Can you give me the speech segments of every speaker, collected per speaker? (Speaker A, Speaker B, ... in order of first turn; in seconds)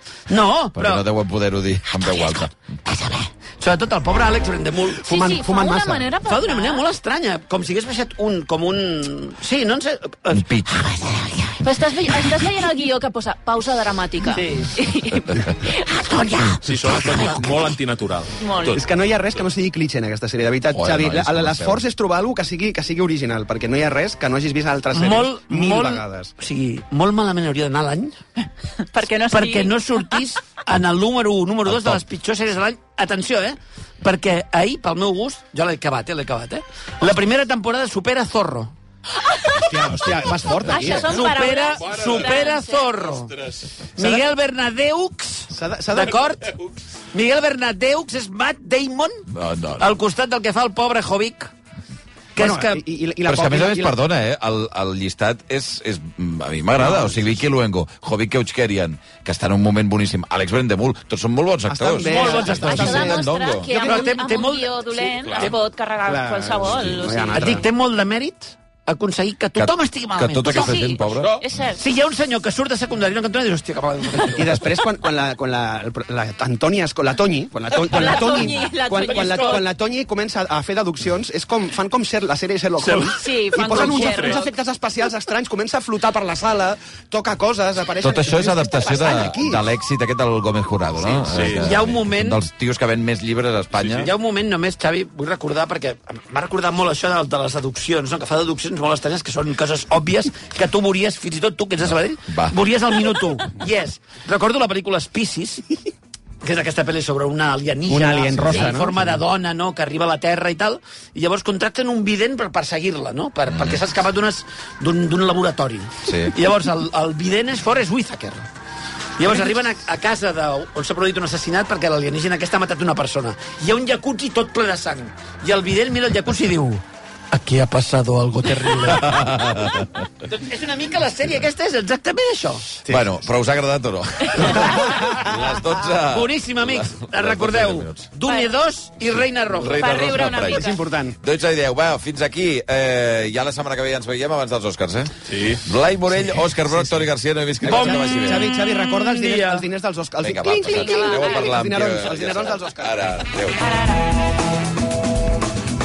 Speaker A: 0.3-1.1, 1.9-5.1, 6.2-12.3, 14.3-14.8, 15.9-17.5, 24.9-28.2, 29.3-38.7, 40.9-43.4, 44.0-46.5, 47.1-49.3, 49.8-51.5, 52.4-52.8, 62.0-63.1, 63.7-65.5, 67.3-70.7, 71.8-74.5, 91.5-92.4, 94.0-105.7, 106.4-118.5, 119.2-129.3, 130.2-132.8, 136.1-139.9, 147.7-148.1, 149.0-149.7
Speaker B: 0.8-2.5, 10.3-11.0, 20.7-21.8, 31.7-32.0, 49.3-49.9, 53.3-63.7, 69.6-71.4, 88.0-94.1, 102.3-102.5, 113.5-113.8, 116.1-116.3, 129.0-129.9, 132.9-138.1, 139.5-148.5, 150.2-153.6
Speaker C: 5.0-6.1, 18.7-26.3, 39.5-41.2, 45.5-46.3, 52.4-54.0, 56.8-57.4, 61.7-64.2, 66.0-67.6, 74.3-89.7, 107.9-109.1, 132.8-133.1, 134.6-135.2, 140.5-141.2, 146.7-147.0, 147.6-153.1
Speaker D: 5.1-6.8, 11.6-16.5, 18.4-18.8, 28.9-30.2, 39.2-39.9, 40.7-42.9, 62.2-67.6, 70.5-71.8, 77.8-79.6, 83.1-84.4, 138.3-138.5, 139.8-140.8, 150.7-151.5, 153.6-154.1
Speaker E: 16.6-19.4, 41.8-43.7, 65.3-65.5, 82.8-84.4, 91.2-91.8, 93.7-94.1, 145.3-145.7